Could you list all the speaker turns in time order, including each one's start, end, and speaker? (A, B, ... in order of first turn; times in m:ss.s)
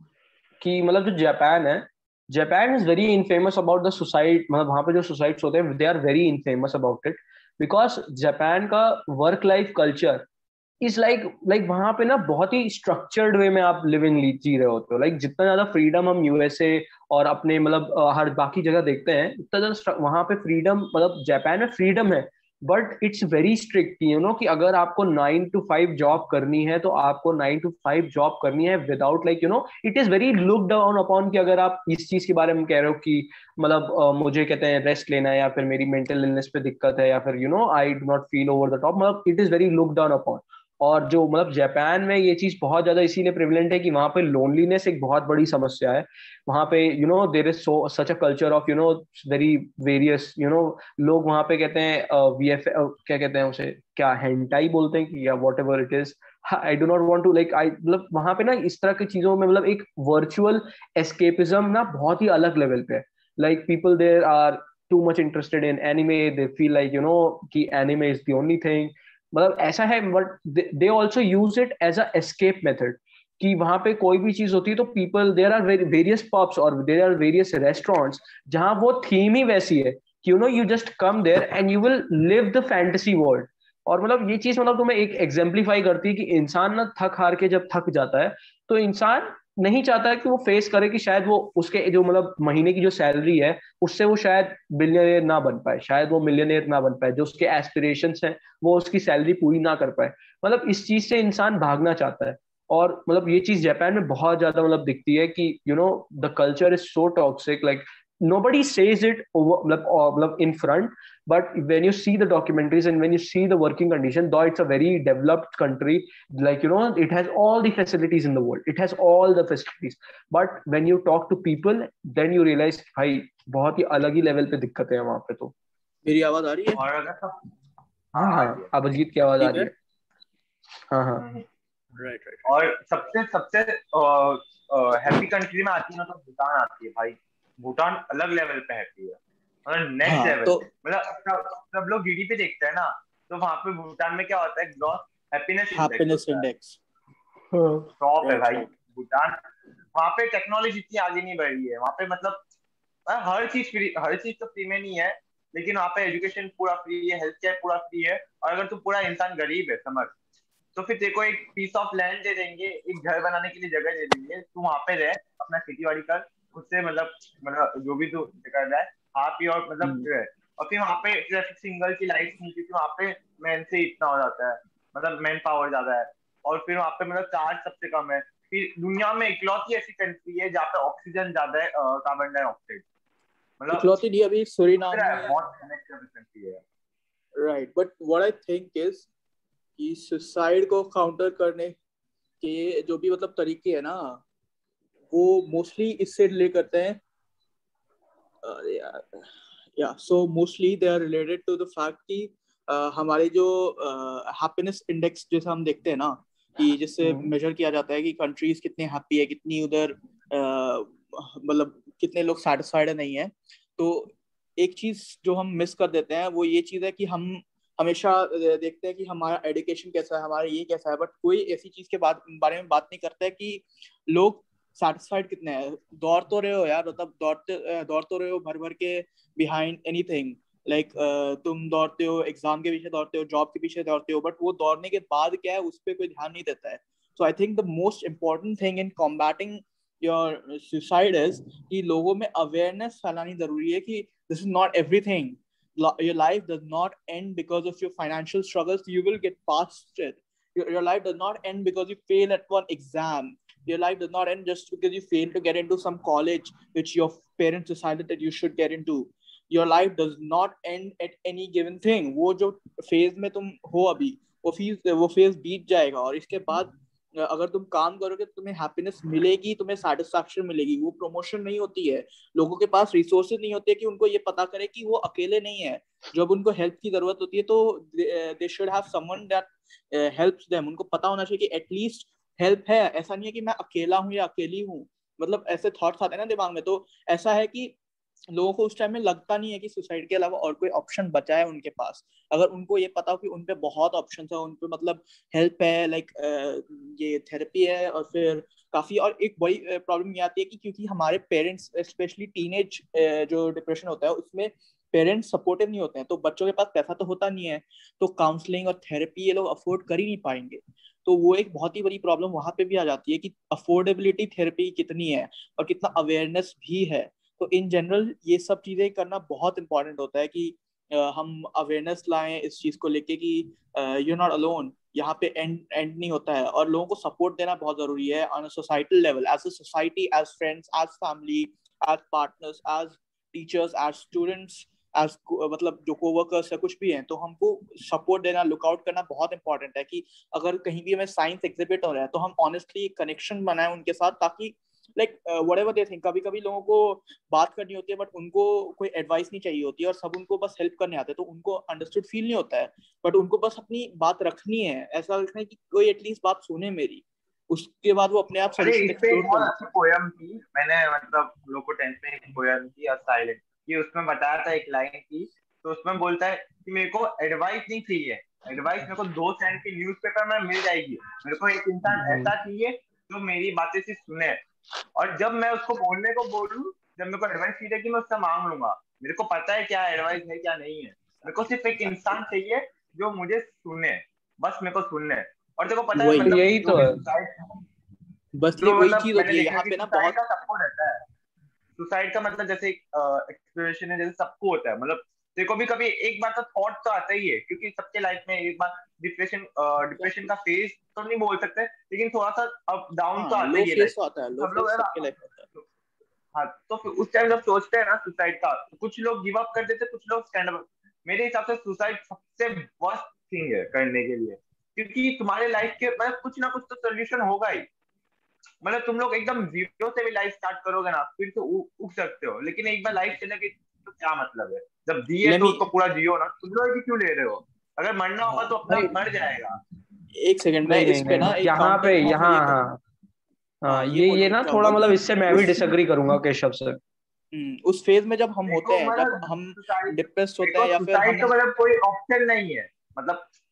0:00.6-0:10.2 A
0:10.8-2:05.5 A
2:06.0-2:06.8 B
2:06.8-2:07.4 C
2:08.1-2:08.7 C
2:08.2-2:09.7 A
2:09.4-2:09.7 B
2:10.9-2:11.2 A
2:12.0-2:12.5 B
2:12.4-2:26.4 C
2:20.0-2:20.6 B
2:25.8-2:26.8 B
2:27.5-2:27.9 A
2:28.0-2:29.4 C
2:28.2-2:28.7 B
2:30.0-2:32.4 C
2:33.1-2:40.1 C
2:40.8-3:02.8 C
3:03.6-3:04.0 C
3:03.7-3:05.4 B
3:04.8-3:06.6 C
3:07.4-3:09.1 B
3:09.8-3:11.7 B
3:12.4-3:14.2 B
3:15.1-3:17.0 B
3:18.4-4:47.8 B
3:27.0-3:27.3 A
4:48.3-5:59.6 B
5:58.6-6:14.4 C
6:15.0-6:27.6 C
6:26.0-6:26.3 B
6:26.2-6:27.0 A
6:28.4-6:30.2 B
6:28.6-6:31.0 C
6:31.8-6:45.1 C
6:40.0-6:40.3 B
6:43.2-6:45.5 B
6:46.3-6:57.7 C
6:58.6-7:09.6 C
7:05.2-7:05.6 B
7:08.3-7:09.0 B
7:10.1-7:12.6 B
7:10.6-7:12.8 A
7:13.6-7:16.8 A
7:13.7-7:15.7 B
7:17.3-7:21.3 B
7:18.5-7:23.2 C